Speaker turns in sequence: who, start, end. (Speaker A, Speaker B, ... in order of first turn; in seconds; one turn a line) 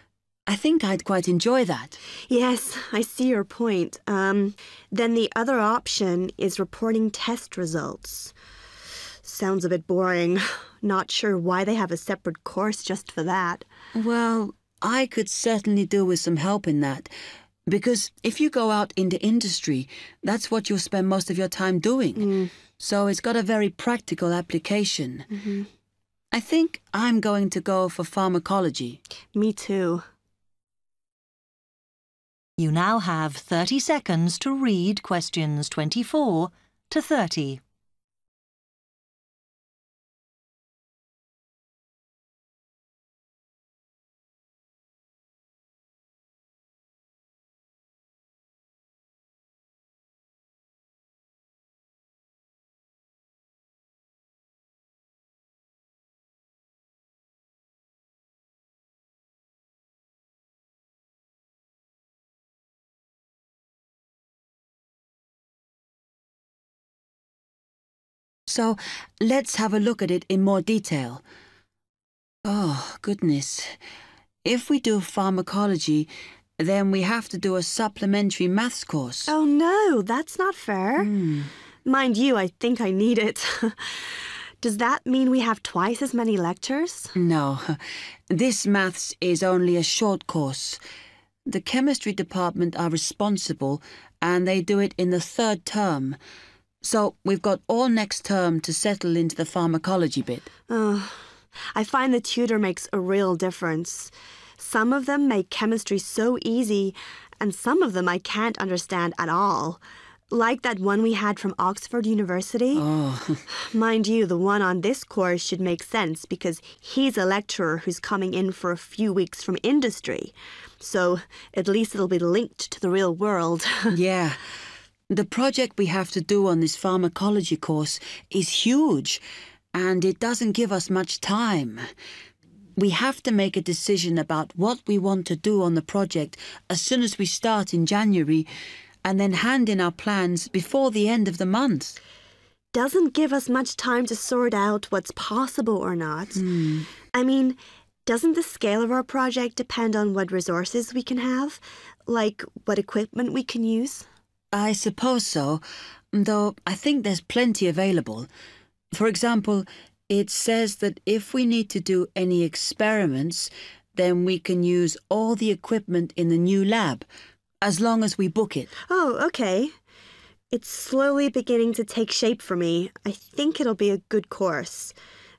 Speaker A: 0.5-2.0
Speaker B: 2.3-8.3
Speaker B: 9.2-13.7
Speaker A: 13.9-17.1
Speaker A: 17.7-25.3
Speaker B: 22.2-22.5
Speaker B: 25.3-25.7
Speaker A: 26.3-29.0
Speaker B: 29.3-30.1
Speaker C: 32.6-37.6
Speaker A: 68.5-71.2
Speaker A: 72.5-73.8
Speaker A: 74.5-79.3
Speaker B: 79.3-81.1
Speaker A: 81.0-81.5
Speaker B: 81.9-87.1
Speaker A: 87.2-90.8
Speaker A: 91.5-96.2
Speaker A: 96.8-100.5
Speaker B: 100.7-112.8
Speaker A: 112.7-113.5
Speaker B: 113.5-124.0
Speaker A: 123.9-124.4
Speaker A: 125.1-129.2
Speaker A: 129.7-131.9
Speaker A: 132.8-138.5
Speaker A: 139.0-142.0
Speaker B: 142.7-146.4
Speaker A: 146.3-146.9
Speaker B: 147.1-154.1
Speaker A: 154.5-158.3
Speaker A: 158.9-167.1
Speaker A: 167.6-168.7
Speaker B: 168.9-169.7
Speaker B: 170.5-174.9